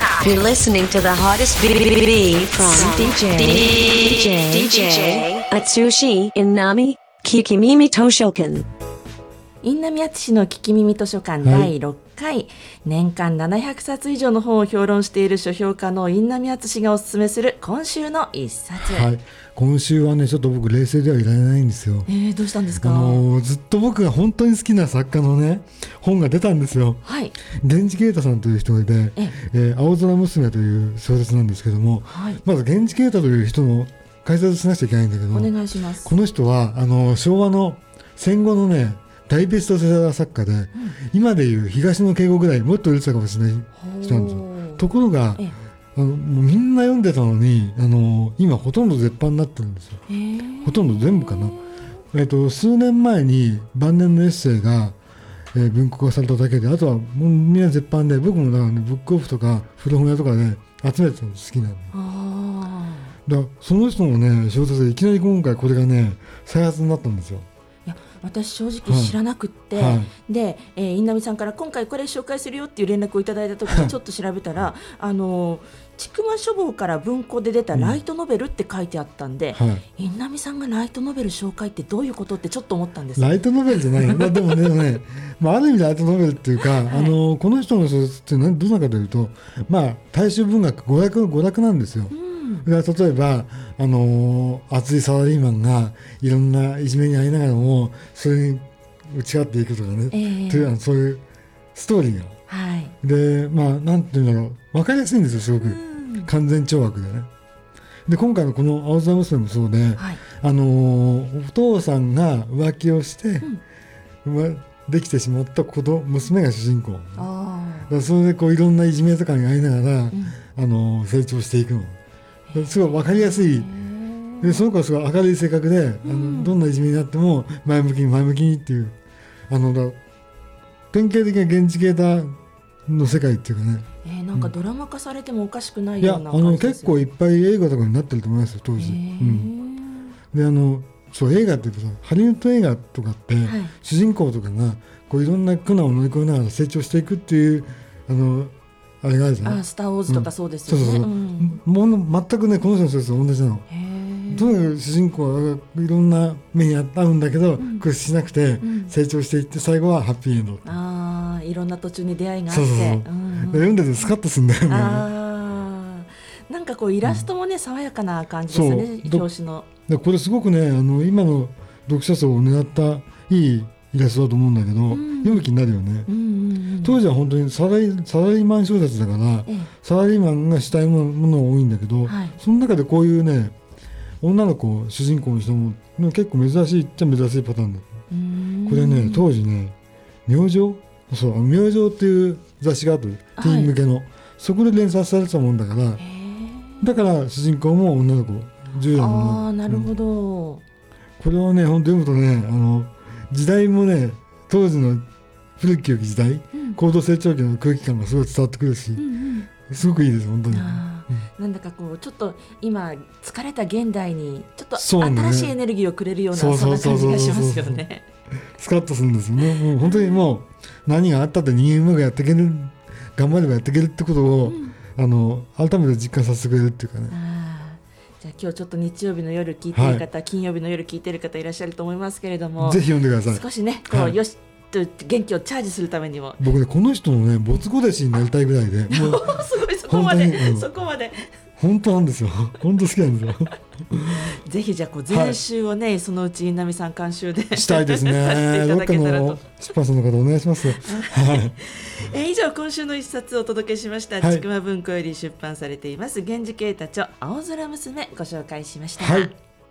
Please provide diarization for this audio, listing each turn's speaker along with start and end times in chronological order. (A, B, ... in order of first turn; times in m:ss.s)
0:00.2-0:08.6 A
0:02.7-0:05.2 B
0:09.6-0:19.1 B
0:11.4-0:11.7 C
0:18.8-0:22.1 C
0:22.1-0:23.3 B
0:22.8-0:50.0 C
0:27.0-0:27.3 B
0:32.1-0:32.4 B
0:35.3-0:36.1 B
0:43.8-0:44.8 B
0:50.1-0:51.8 B
0:50.6-0:51.6 C
0:52.1-0:55.0 C
0:55.5-1:01.9 C
1:01.9-1:03.1 B
1:03.3-1:07.5 C
1:07.9-1:23.4 B
1:08.9-1:09.2 C
1:09.7-1:10.1 C
1:13.7-1:13.9 C
1:17.7-1:18.0 C
1:19.5-1:19.8 C
1:23.2-1:32.1 C
1:24.0-1:24.6 B
1:26.7-1:27.2 B
1:32.1-1:32.7 B
1:32.6-1:41.2 C
1:40.1-1:40.7 B
1:41.7-1:42.4 C
1:42.5-1:42.9 B
1:43.0-1:47.3 C
1:45.6-1:46.3 B
1:48.1-1:53.5 C
1:50.0-1:50.2 B
1:54.2-1:57.3 C
1:57.2-1:57.9 B
1:57.9-2:02.0 C
2:00.1-2:00.4 B
2:02.5-2:04.6 B
2:02.5-2:03.7 C
2:04.4-2:08.9 C
2:06.0-2:06.6 B
2:09.5-2:10.0 C
2:10.9-2:12.4 C
2:12.9-2:14.5 C
2:14.0-2:17.0 B
2:16.0-2:19.5 C
2:18.8-2:20.1 B
2:20.3-2:33.7 C
2:23.4-2:23.7 B
2:29.4-2:31.6 B
2:33.7-2:34.6 B
2:34.3-2:40.7 C
2:37.6-2:37.8 B
2:38.6-2:38.9 B
2:40.6-2:43.8 B
2:42.5-2:45.1 C
2:44.7-2:49.7 B
2:48.5-2:49.3 C
2:49.9-2:56.1 C
2:54.9-2:55.5 B
2:56.1-2:57.0 B
2:56.8-3:03.5 C
3:02.0-3:02.4 B
3:04.2-3:07.9 C
3:08.1-3:09.3 B
3:08.7-3:09.8 C
3:10.2-3:16.0 C
3:13.4-3:13.7 B
3:16.0-3:16.9 B
3:16.8-3:19.9 C
3:19.0-3:20.6 B
3:21.2-3:25.0 C
3:25.6-3:31.3 C
3:29.0-3:29.5 B
3:30.5-3:38.0 B
3:34.8-3:35.6 C
3:36.3-3:37.8 C
3:38.6-3:47.2 C
3:39.8-3:40.4 B
3:44.4-3:44.8 B
3:47.1-3:56.4 B
3:49.7-3:50.0 C
3:52.6-3:54.2 C
3:56.4-4:00.7 C
3:58.9-4:01.3 B
4:01.6-4:04.3 C
4:04.2-4:09.5 B
4:05.1-4:05.4 C
4:07.5-4:11.6 C
4:10.7-4:19.3 B
4:14.2-4:14.4 C
4:19.0-4:19.3 C